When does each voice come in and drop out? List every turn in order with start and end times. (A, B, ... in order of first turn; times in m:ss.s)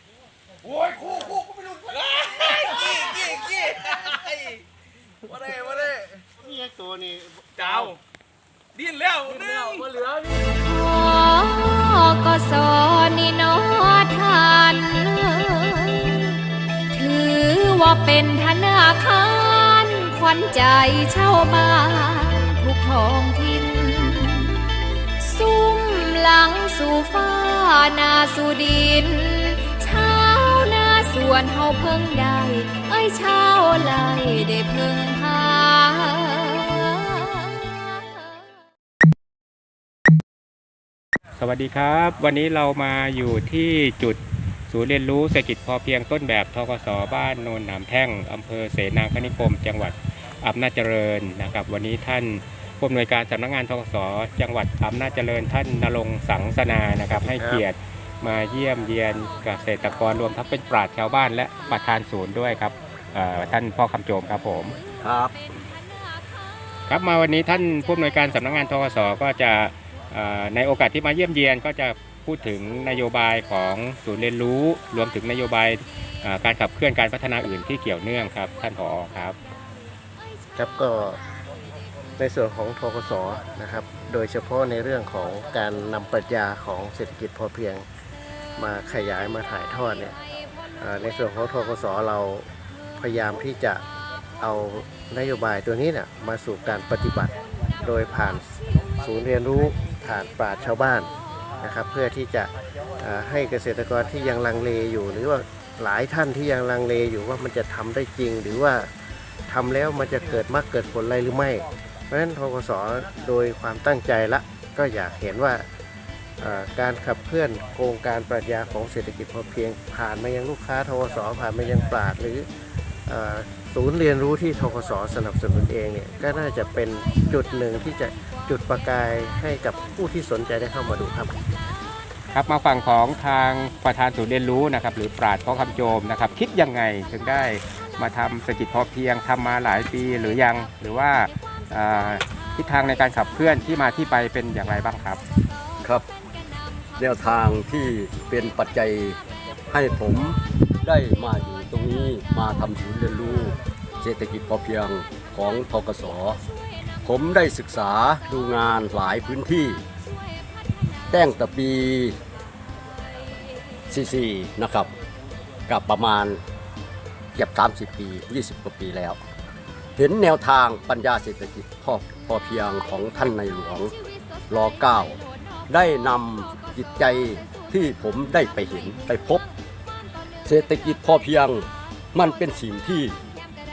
0:00.6-0:04.6 A
0:05.3-0:06.2 A
0:06.4-0:07.9 B
0:07.6-0:08.0 A
0:08.8-0:09.9 A
0:10.5-0:16.4 C
0:16.9-0:24.7 C
0:25.2-0:38.4 C
0:41.4-1:04.8 D
0:57.2-0:57.6 B
1:05.0-1:05.3 E
1:06.9-1:19.4 D
1:20.6-1:21.2 B
1:22.2-1:27.8 B
1:28.6-1:30.2 B
1:30.8-1:33.8 B
1:34.4-1:38.5 B
1:39.0-1:48.9 B
1:49.5-1:55.6 B
1:56.4-2:02.5 B
2:03.1-2:11.4 B
2:12.3-2:25.2 D
2:27.0-2:29.2 E
2:29.7-2:36.4 E
2:37.0-2:39.8 E
2:41.1-2:42.2 E
2:43.9-2:44.9 E
2:45.7-2:46.4 E
2:47.4-2:49.2 E
2:50.0-2:53.9 E
2:54.5-2:59.4 E
3:00.4-3:03.2 E